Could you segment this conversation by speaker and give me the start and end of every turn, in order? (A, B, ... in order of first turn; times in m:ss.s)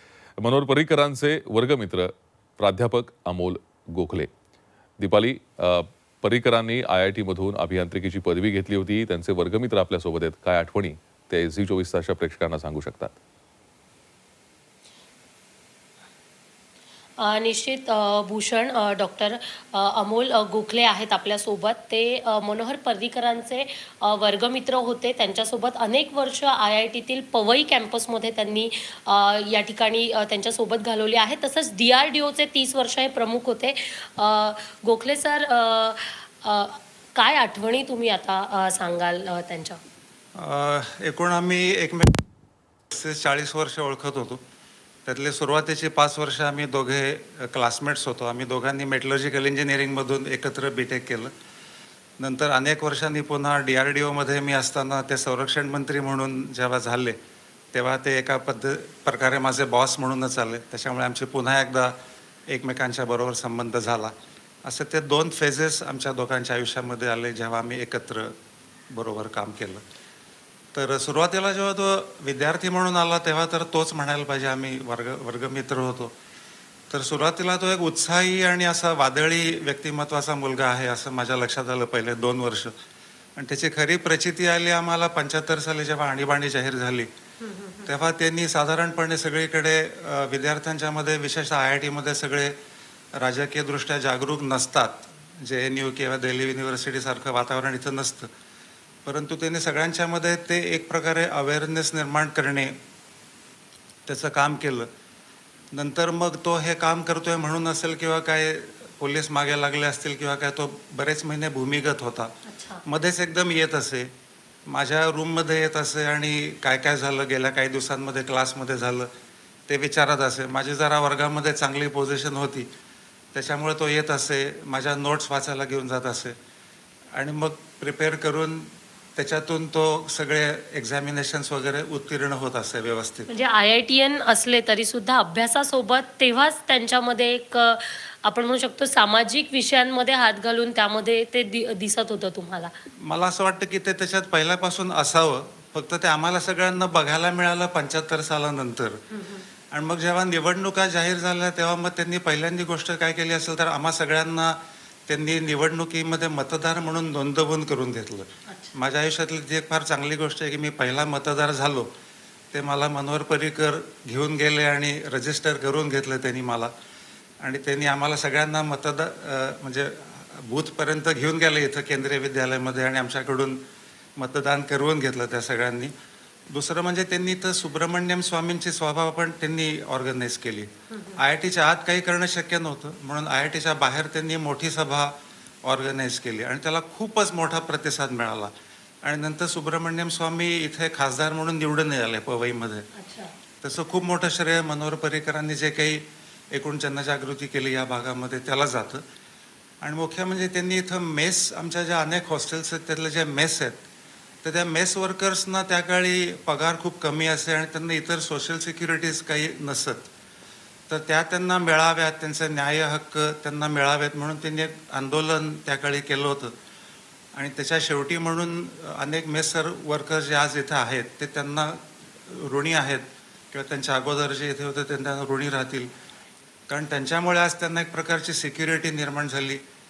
0:00.4-0:04.3 A
0:05.0-0:13.1 A
0:17.2-0:39.8 B
0:40.3-0:42.2 C
0:42.9-0:44.4 C
0:45.0-0:51.3 C
0:52.2-0:57.2 C
0:57.7-1:02.0 C
1:02.5-1:04.1 C
1:04.6-1:08.3 C
1:08.9-1:09.8 C
1:10.7-1:16.1 C
1:16.9-1:22.7 C
1:23.4-1:27.1 C
1:27.4-1:27.9 B
1:27.8-1:32.6 C
1:33.1-1:38.3 C
1:39.0-1:42.7 C
1:44.0-1:44.9 C
1:45.7-1:52.3 C
1:52.4-1:52.8 B
1:52.8-1:54.1 C
1:54.7-1:59.1 C
1:59.7-2:02.7 C
2:03.3-2:06.4 C
2:07.1-2:13.3 C
2:13.3-2:22.7 B
2:23.0-2:29.0 C
2:29.1-2:29.4 B
2:29.7-2:41.9 C
2:38.5-2:38.7 B
2:42.5-2:46.7 C
2:47.4-2:53.6 C
2:54.2-2:55.9 C
2:56.5-3:08.5 C
3:00.9-3:01.2 B
3:09.0-3:12.8 C
3:12.9-3:13.3 B
3:13.6-3:19.0 C
3:19.8-3:23.8 C
3:24.4-3:30.1 C
3:30.9-3:36.5 C
3:37.3-3:45.9 C
3:46.7-3:49.6 C